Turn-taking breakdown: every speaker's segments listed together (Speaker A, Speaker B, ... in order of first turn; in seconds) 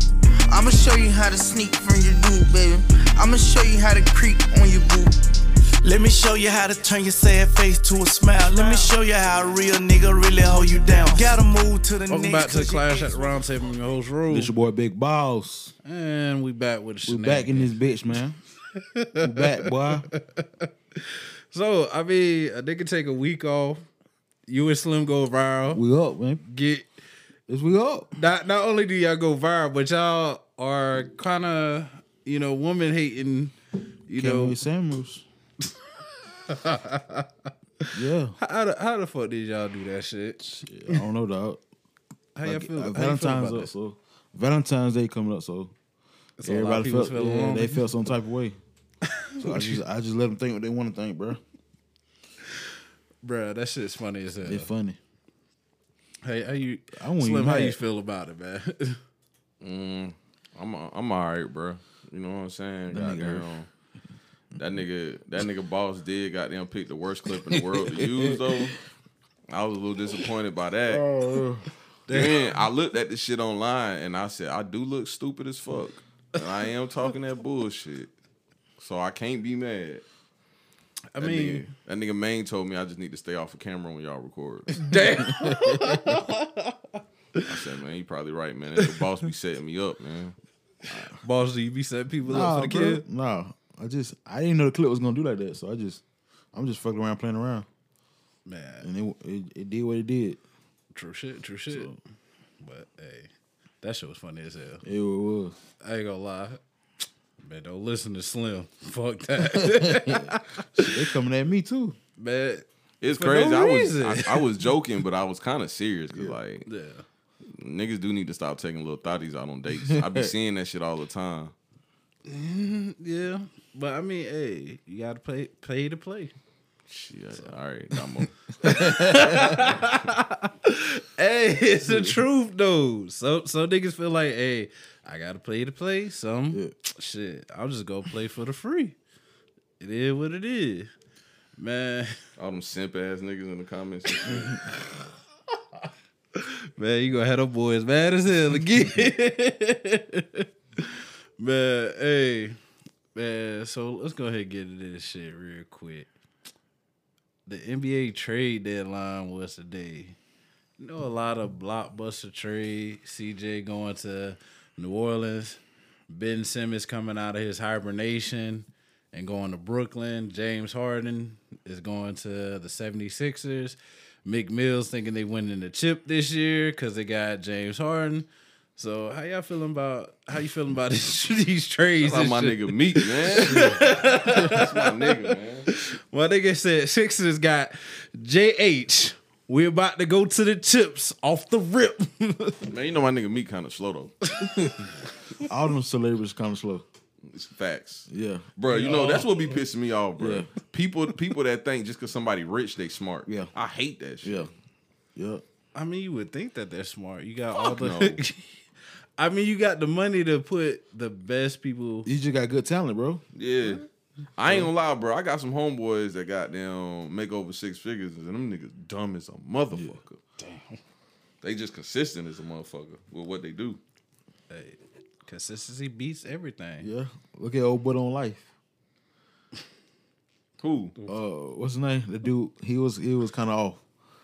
Speaker A: 0.5-5.1
Speaker B: 5.8-13.2
Speaker C: 12.1-14.5, 15.8-17.8, 18.7-23.8, 24.5-25.8, 26.4-26.9, 28.1-33.5, 34.1-34.6, 36.4-41.0, 42.4-43.7, 46.4-47.8, 49.2-49.8, 53.2-54.7, 56.2-59.0, 67.5-68.3, 72.0-72.5, 81.1-81.7, 84.7-87.5, 91.1-93.0, 98.5-98.9, 100.9-101.9, 102.6-103.3, 103.8-104.8, 105.8-106.6, 107.4-111.1, 112.2-114.4, 116.7-117.0, 122.3-126.3, 128.6-138.9, 139.8-140.9, 141.6-142.2, 144.1-144.9, 146.3-152.6, 153.1-156.1, 157.4-160.2, 160.8-192.7, 194.3-194.9, 198.7-199.3, 205.7-208.6, 209.2-212.1, 220.4-220.8, 224.5-226.9
Speaker D: 14.3-15.7, 17.0-18.4, 19.2-20.1, 25.7-26.4, 27.5-28.1, 34.1-35.2, 37.9-38.4, 40.4-41.6, 42.4-45.7, 46.4-48.6, 49.4-51.4, 54.4-55.0, 57.0-57.8, 62.9-63.5, 70.9-71.7, 85.1-86.2, 90.9-91.2, 92.2-96.0, 96.5-97.7, 98.8-100.4, 101.7-102.0, 104.8-105.5, 109.4-112.0, 119.8-120.3, 128.7-129.6, 131.8-132.2, 183.4-183.8, 195.4-196.8, 198.1-198.5, 200.2-200.5, 204.2-204.5, 205.2-205.4, 212.0-213.2, 226.8-228.5, 231.1-233.8
Speaker E: 59.6-63.7, 64.5-68.8, 69.5-71.0, 72.1-78.1, 78.8-80.0, 81.2-85.0, 87.4-90.3, 113.0-116.7, 117.5-121.5, 126.9-128.3, 142.4-144.7, 182.0-185.7, 192.6-194.1, 197.2-204.5, 207.5-208.2, 213.3-213.8, 214.4-220.2, 221.4-223.8, 230.6-230.9